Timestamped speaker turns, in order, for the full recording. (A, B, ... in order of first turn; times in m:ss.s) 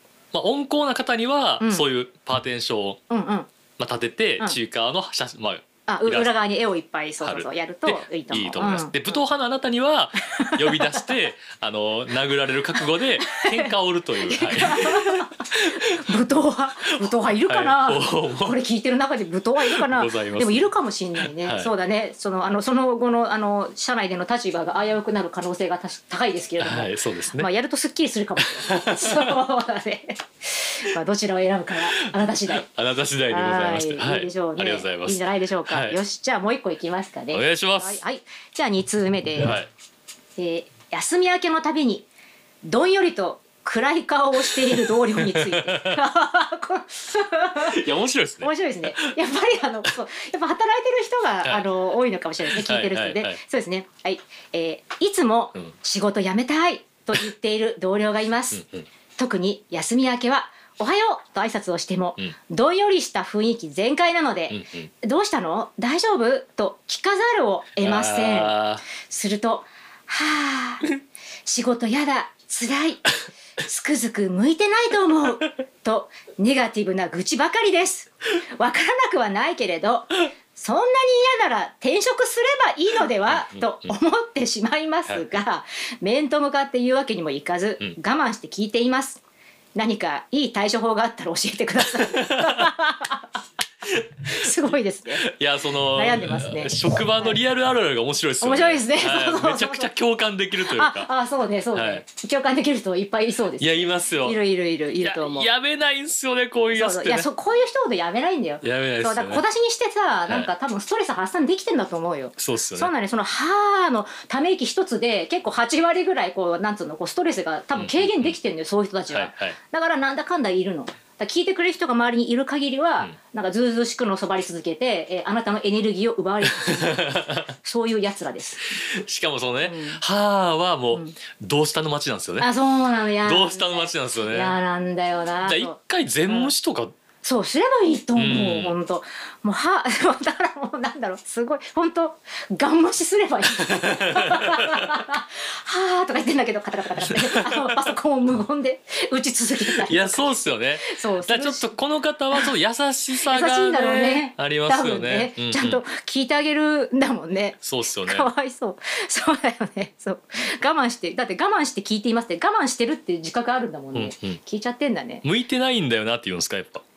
0:00.3-0:03.0 A
0:01.6-0:01.9 B
0:03.1-0:03.5 B
0:03.8-0:06.3 A
0:05.9-0:09.2 B
0:07.2-0:16.0 A
0:10.4-0:11.1 B
0:13.2-0:32.7 B
0:16.9-0:18.6 A
0:19.6-0:21.7 A
0:26.6-0:27.5 A
0:28.4-0:29.4 A
0:32.6-0:36.0 A
0:33.3-0:39.6 B
0:37.3-0:38.0 A
0:39.4-0:39.7 A
0:40.4-0:42.1 B
0:42.6-0:58.6 B
0:44.5-0:46.0 A
0:47.6-0:49.1 A
0:52.5-0:53.4 A
0:58.5-0:58.9 A
0:59.2-1:10.9 B
1:04.5-1:04.9 A
1:07.8-1:08.8 A
1:11.4-1:13.0 B
1:13.6-1:29.2 B
1:23.3-1:23.9 A
1:29.8-1:33.3 B
1:31.9-1:32.7 A
1:33.8-1:34.5 A
1:34.3-1:35.3 B
1:35.1-1:41.1 A
1:35.9-1:37.4 B
1:38.4-1:39.9 B
1:40.6-1:45.5 B
1:41.7-1:42.0 A
1:43.6-1:44.4 A
1:45.0-1:47.3 A
1:46.7-2:07.1 B
1:48.6-1:49.4 A
1:52.4-1:52.9 A
1:57.8-1:58.4 A
1:59.1-1:59.6 A
2:06.5-2:07.5 A
2:07.6-2:08.8 B
2:08.8-2:12.5 A
2:09.6-2:10.0 B
2:12.4-2:15.7 B
2:13.2-2:14.6 A
2:15.4-2:16.9 A
2:17.2-2:31.7 B
2:18.2-2:18.8 A
2:23.6-2:24.9 A
2:27.3-2:27.8 A
2:29.7-2:35.8 A
2:33.2-2:45.2 B
2:37.6-2:38.3 A
2:43.9-2:44.4 A
2:45.2-2:46.8 A